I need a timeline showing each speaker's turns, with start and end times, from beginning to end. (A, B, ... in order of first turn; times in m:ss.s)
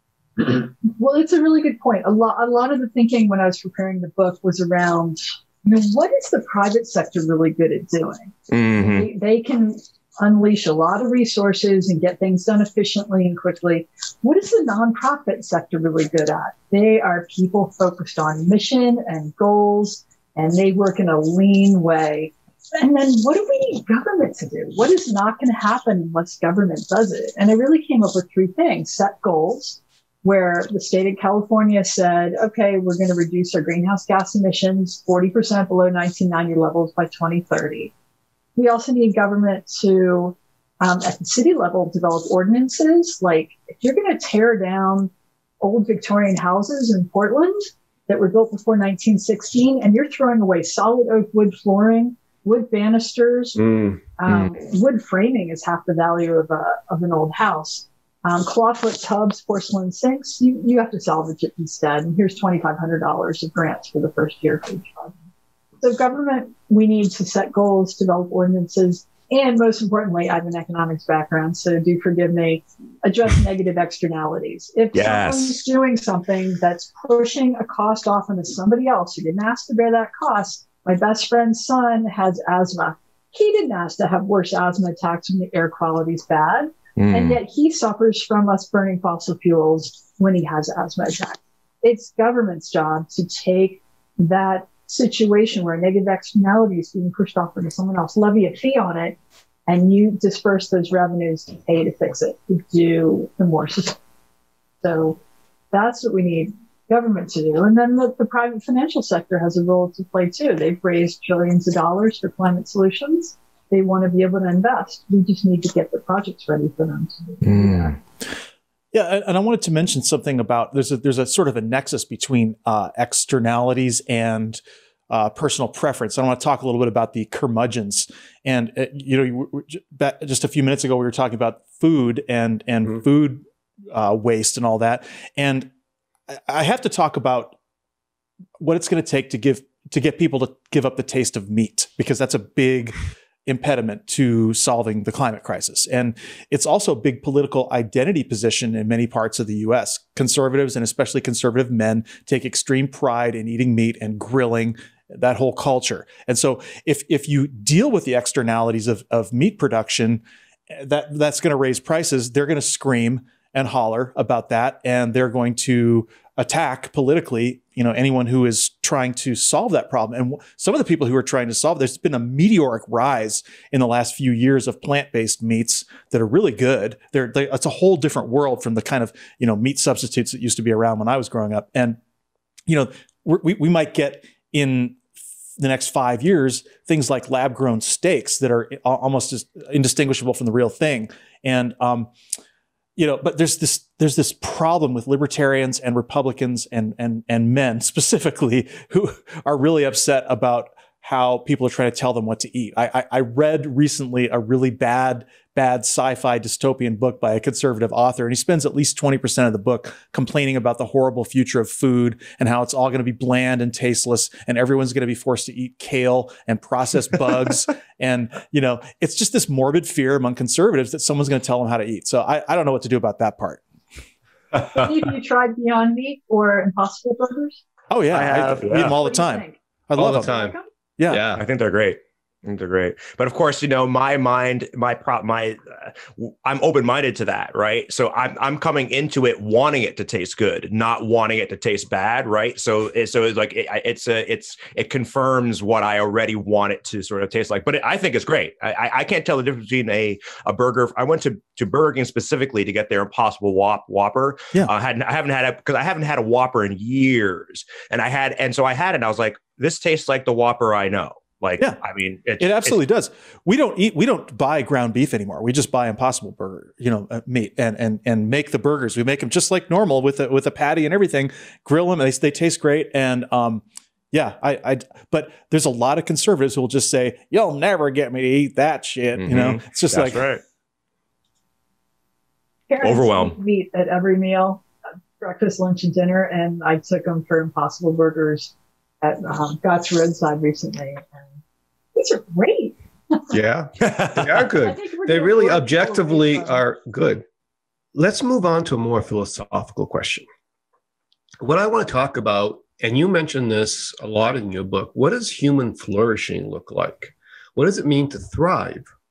0:00.4-0:37.9 A
0:08.5-0:09.1 B
0:38.6-0:53.6 A
0:53.6-0:54.0 C
0:54.2-1:05.2 A
1:05.8-1:44.0 A
1:14.9-1:15.6 B
1:27.0-1:27.4 B
1:44.8-1:45.2 A
1:45.7-1:58.0 A
1:57.4-1:58.0 B
1:58.9-2:15.7 D
2:16.3-2:17.6 D
2:18.6-3:02.0 D
3:02.7-3:05.0 D
3:05.6-3:12.1 D
3:13.0-3:43.6 D
3:44.6-3:47.6 A
3:47.9-3:50.4 D
3:48.1-3:49.0 B
3:48.7-3:50.7 A
3:50.0-3:50.6 C
3:51.0-3:51.2 D
3:51.1-3:51.4 C
3:51.4-4:22.8 B
4:22.4-4:40.2 D
4:39.2-4:40.4 B
4:42.7-4:44.6 A
4:42.8-4:43.4 B
4:45.2-4:51.2 A
4:52.0-4:53.3 A
4:53.3-4:57.2 C
4:53.8-4:54.5 B
4:54.6-4:56.6 A
4:58.0-5:00.3 C
5:01.4-5:08.9 C